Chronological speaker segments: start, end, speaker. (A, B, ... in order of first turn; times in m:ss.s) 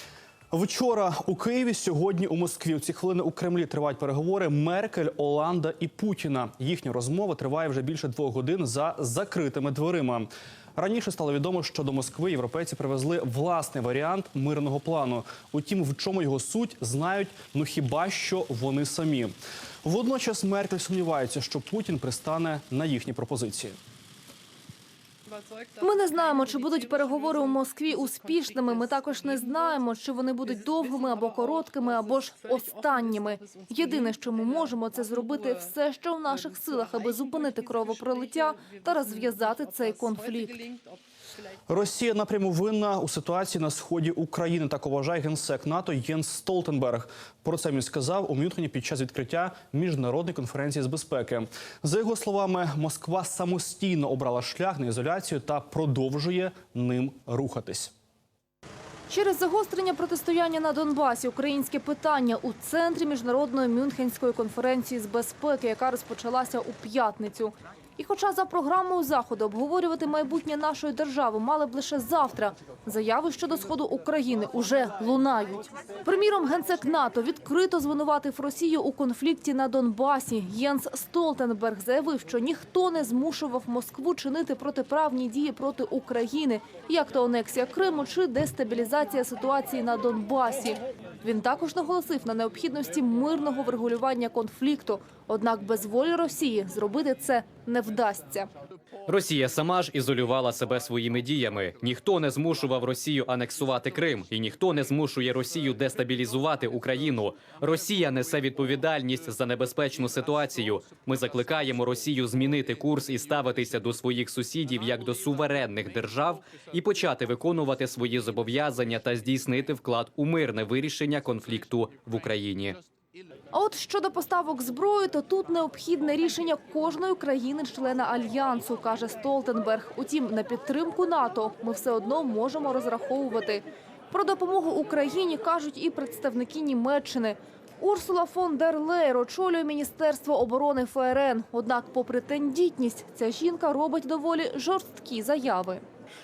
0:00.5-0:23.8 A
0:25.8-0:40.6 B
0:41.7-0:57.9 A
0:59.1-1:38.5 B
1:39.1-2:02.8 C
2:03.5-2:25.8 B